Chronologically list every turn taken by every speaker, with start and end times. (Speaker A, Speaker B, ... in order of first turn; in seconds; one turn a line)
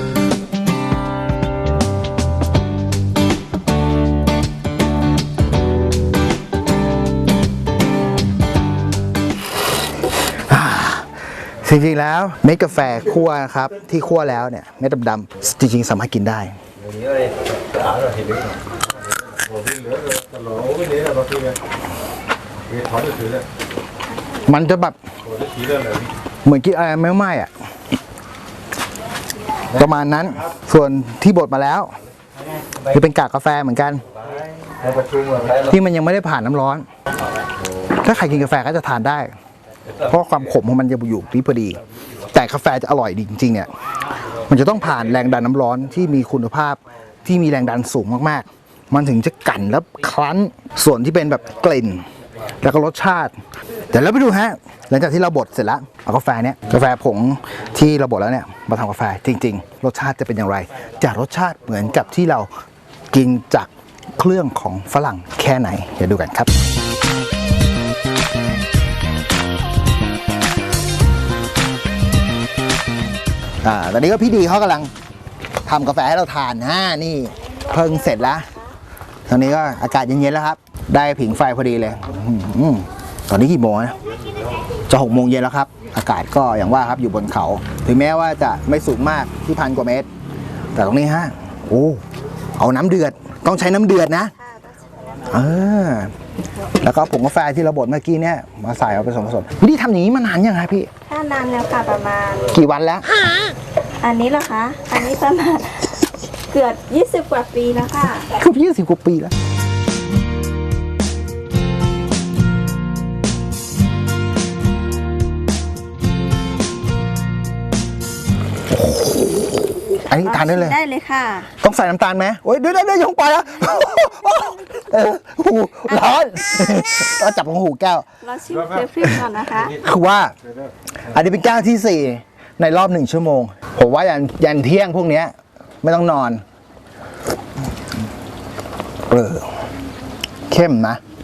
Speaker A: 10.5-16.6
Speaker A: 24.5-25.0
Speaker A: 26.4-27.5
Speaker A: 29.7-31.9
Speaker A: 32.9-34.0
Speaker A: 35.5-36.9
Speaker A: 38.0-39.3
Speaker A: 40.0-43.7
Speaker A: 44.5-52.1
Speaker A: 52.6-53.4
Speaker A: 53.9-62.5
Speaker A: 63.1-66.6
Speaker A: 73.6-74.9
Speaker A: 75.7-78.5
Speaker B: 77.6-78.5
Speaker A: 79.3-84.0
Speaker A: 84.9-90.1
Speaker A: 90.8-92.0
Speaker A: 92.6-94.3
Speaker B: 94.5-95.0
Speaker A: 95.2-96.1
Speaker A: 96.8-100.9
Speaker B: 101.1-102.5
Speaker A: 102.5-103.1
Speaker B: 104.0-108.3
Speaker A: 108.3-109.3
Speaker A: 118.7-120.8
Speaker B: 120.1-121.5
Speaker A: 121.6-128.1
Speaker B: 126.0-127.1
Speaker B: 128.2-129.8
Speaker A: 129.7-130.3
Speaker A: 131.1-136.4
Speaker A: 139.1-139.5
Speaker A: 140.5-141.0